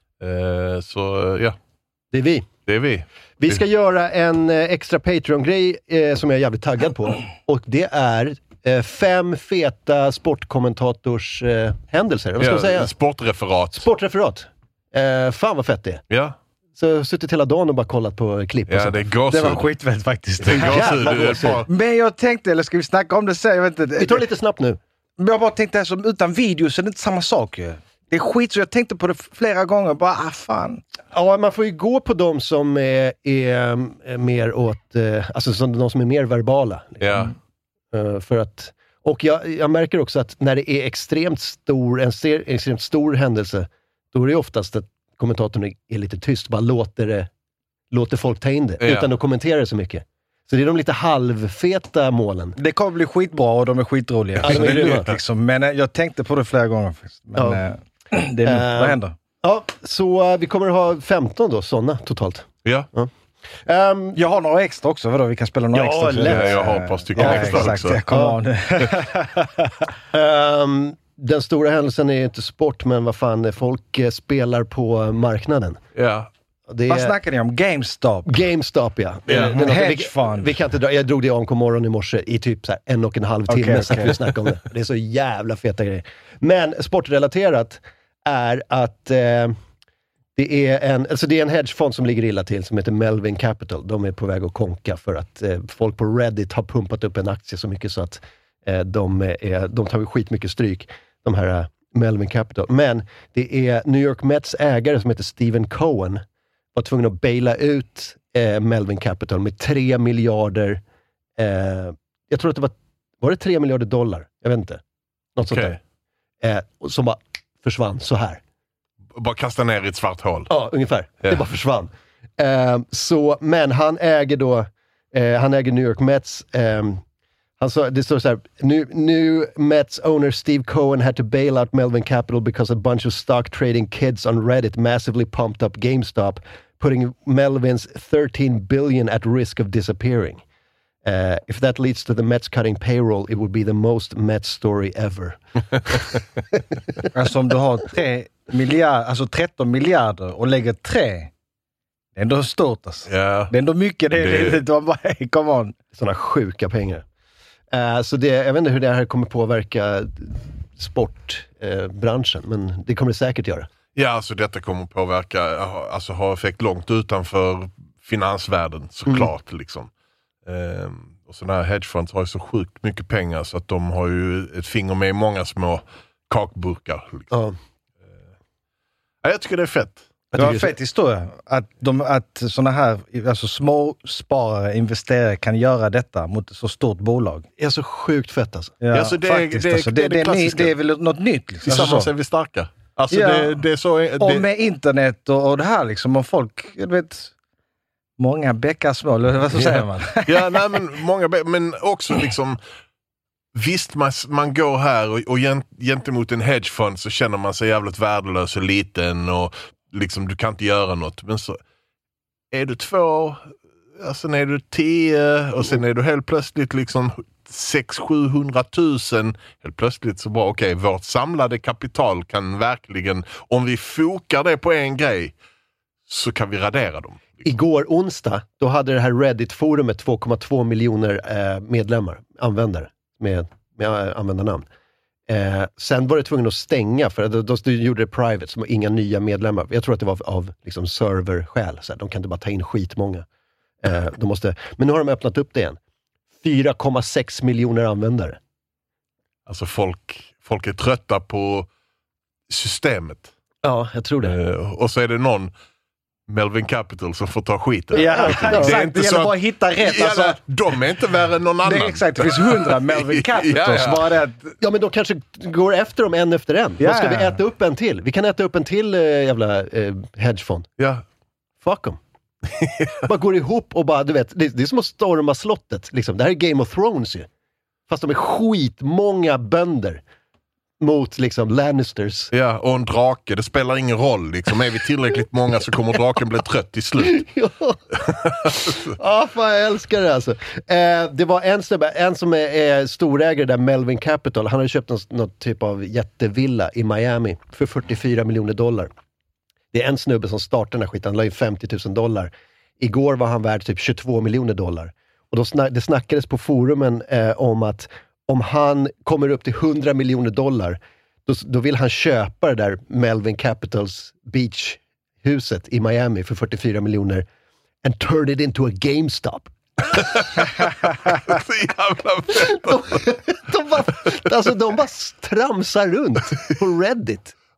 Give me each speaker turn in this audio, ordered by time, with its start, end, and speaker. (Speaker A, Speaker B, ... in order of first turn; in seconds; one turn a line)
Speaker A: 0.2-1.6
Speaker B: 2.1-2.5
Speaker A: 2.7-3.6
Speaker B: 3.4-12.9
Speaker A: 12.4-13.9
Speaker B: 13.7-16.0
Speaker A: 16.1-16.4
Speaker B: 16.8-19.1
Speaker A: 18.7-19.7
Speaker C: 19.3-24.2
Speaker A: 20.4-21.7
Speaker B: 20.5-21.6
Speaker B: 24.0-24.8
Speaker C: 25.2-30.8
Speaker B: 31.1-37.3
Speaker A: 37.0-37.3
Speaker B: 37.9-47.3
Speaker B: 47.9-52.6
Speaker A: 48.8-49.1
Speaker C: 52.6-59.2
Speaker B: 54.4-55.1
Speaker A: 54.4-55.0
Speaker B: 57.4-57.6
Speaker B: 58.5-63.1
Speaker B: 63.6-64.2
Speaker C: 64.2-69.9
Speaker B: 65.7-68.4
Speaker A: 66.3-68.0
Speaker B: 70.1-75.8
Speaker A: 76.0-76.3
Speaker B: 76.7-77.1
Speaker C: 76.9-78.5
Speaker B: 78.3-89.5
Speaker A: 79.3-79.6
Speaker C: 79.3-80.5
Speaker C: 83.5-84.3
Speaker B: 90.4-106.2
Speaker B: 106.8-110.8
Speaker B: 111.4-114.8
Speaker B: 115.4-115.8
Speaker A: 115.5-115.8
Speaker B: 116.4-118.4
Speaker A: 119.2-120.5
Speaker B: 120.5-127.0
Speaker B: 127.6-140.4
Speaker B: 141.0-147.1
Speaker C: 147.1-151.3
Speaker C: 152.2-155.8
Speaker A: 153.1-153.5
Speaker A: 154.2-154.6
Speaker B: 155.9-157.1
Speaker B: 157.7-163.7
Speaker A: 163.9-169.9
Speaker A: 170.5-177.3
Speaker A: 179.2-180.1
Speaker B: 180.3-180.7
Speaker C: 180.3-187.5
Speaker B: 187.6-188.8
Speaker C: 188.8-192.1
Speaker A: 188.9-190.7
Speaker A: 191.7-194.5
Speaker C: 193.1-193.6
Speaker C: 194.2-197.3
Speaker C: 198.2-200.6
Speaker A: 199.5-202.6
Speaker A: 203.6-211.6
Speaker A: 212.5-213.4
Speaker A: 214.0-225.3
Speaker A: 226.1-227.4
Speaker B: 227.4-234.7
Speaker B: 235.3-243.2
Speaker B: 243.8-245.8
Speaker B: 246.4-248.4
Speaker A: 249.5-251.7
Speaker A: 252.5-253.3
Speaker B: 253.6-254.4
Speaker A: 254.2-255.5
Speaker A: 256.3-264.1
Speaker C: 257.9-260.4
Speaker B: 258.1-258.8
Speaker C: 261.6-264.6
Speaker B: 264.6-270.7
Speaker C: 266.8-267.4
Speaker B: 271.6-272.0
Speaker A: 272.5-273.0
Speaker B: 273.0-277.3
Speaker B: 277.9-280.0
Speaker B: 280.8-282.3
Speaker A: 282.3-287.3
Speaker B: 287.0-298.9
Speaker A: 288.0-288.9
Speaker B: 299.7-317.3
Speaker B: 317.8-319.5
Speaker A: 319.9-323.1
Speaker B: 322.5-327.4